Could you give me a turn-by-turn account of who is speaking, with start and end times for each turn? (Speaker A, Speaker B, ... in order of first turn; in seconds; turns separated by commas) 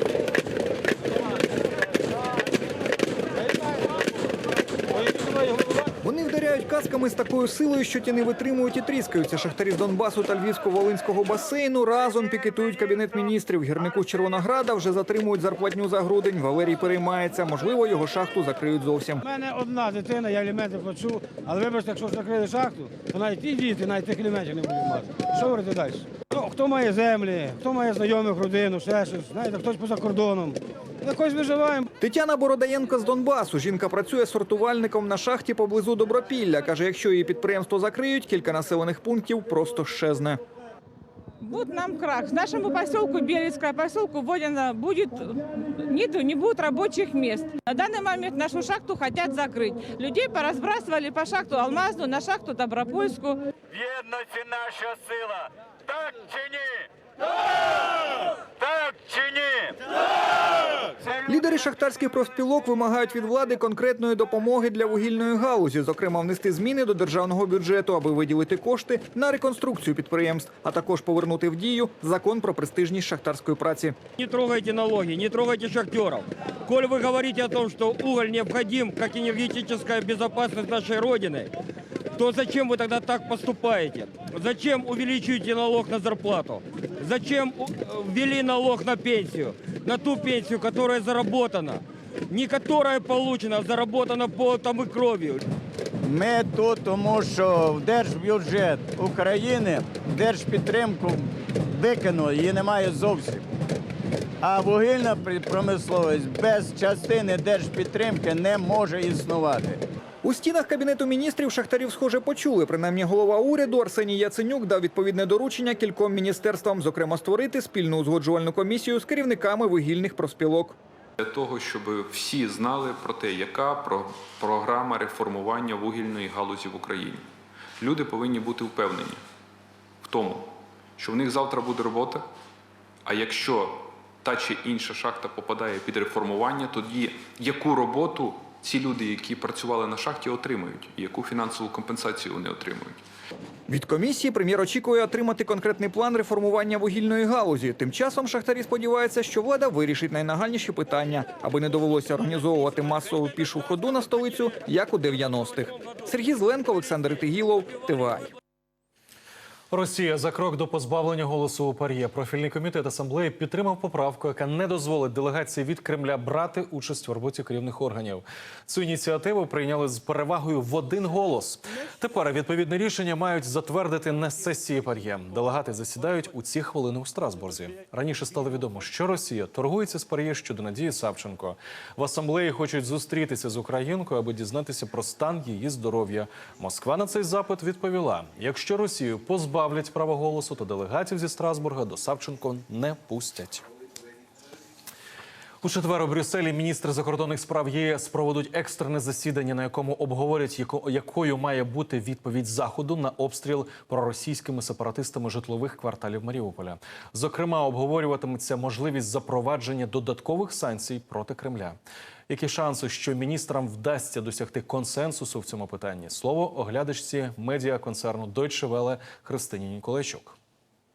Speaker A: 4.9-5.4, Speaker B: 6.0-19.2, Speaker A: 19.2-31.9, Speaker B: 32.0-40.4, Speaker C: 41.4-53.4, Speaker B: 61.2-74.0, Speaker D: 74.2-81.5, Speaker D: 82.2-95.4, Speaker E: 96.0-103.4, Speaker E: 104.4-109.8, Speaker B: 110.2-120.8, Speaker F: 121.2-127.2, Speaker F: 127.8-129.2, Speaker F: 130.0-132.2, Speaker F: 133.0-143.0, Speaker B: 143.7-158.3, Speaker G: 159.7-193.6, Speaker G: 195.6-211.8, Speaker G: 212.3-220.3